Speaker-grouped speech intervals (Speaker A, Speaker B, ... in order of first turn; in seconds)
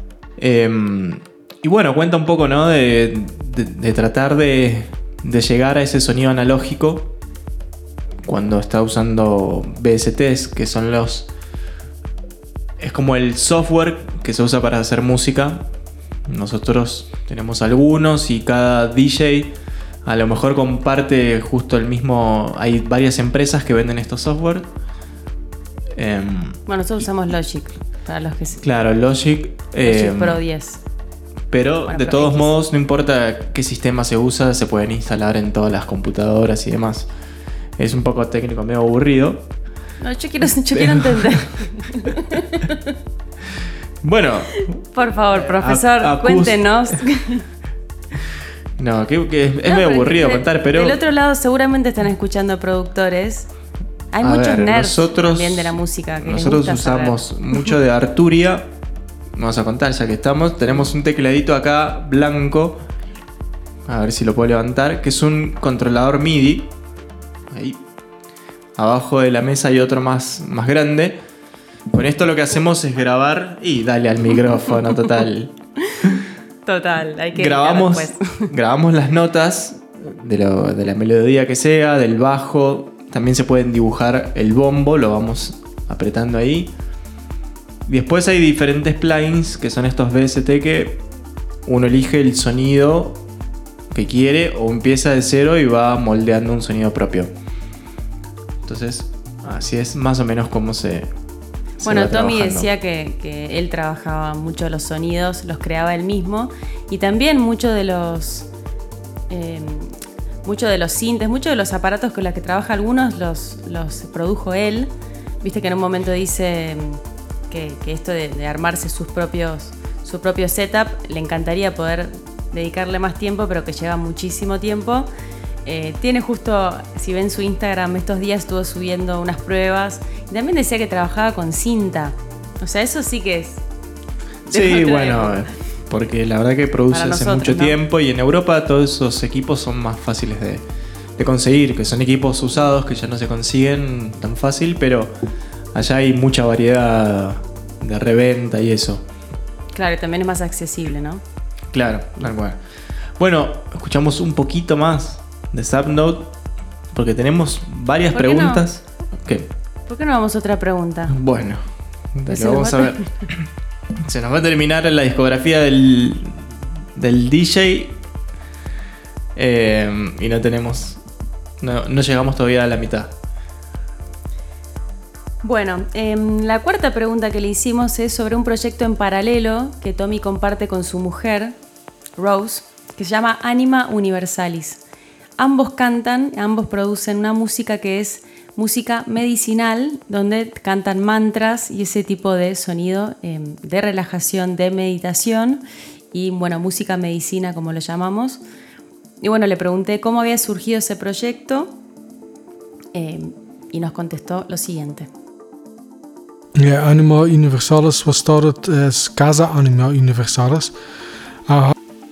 Speaker A: 0.4-7.1, 8.2-11.3, 12.8-15.7, 16.3-19.5, 20.0-24.7, 25.9-26.6, 28.6-30.4, 31.5-37.1, 37.8-39.5, 40.7-41.5, 44.0-46.6, 48.8-51.0, 54.2-58.7, 59.4-62.8, 63.9-66.7, 67.5-67.8, 68.8-71.2, 71.9-76.2, 77.3-86.7, 87.9-91.0, 91.7-93.2, 93.9-97.3, 98.6-101.1, 101.8-102.7, 134.5-140.6, 141.2-145.1, 145.7-149.0, 151.7-152.6, 153.2-156.3, 156.9-159.5, 161.1-161.6, 162.1-163.4, 164.0-167.9, 169.3-171.0, 171.6-173.1
Speaker B: 26.7-28.6, 29.8-30.8, 31.9-32.5, 40.0-42.8, 44.9-47.5, 49.6-53.5, 54.1-57.2, 76.7-78.5, 101.8-108.5, 109.3-109.9, 110.4-114.9, 115.4-125.1, 125.7-133.6, 134.5-135.4, 136.9-137.8, 149.7-151.2, 158.1-158.6, 159.9-161.1, 162.3-163.0, 175.4-181.5, 182.2-184.8, 185.4-195.6, 196.1-198.4, 199.2-201.7, 202.9-205.1
Speaker C: 206.5-210.7, 211.4-211.8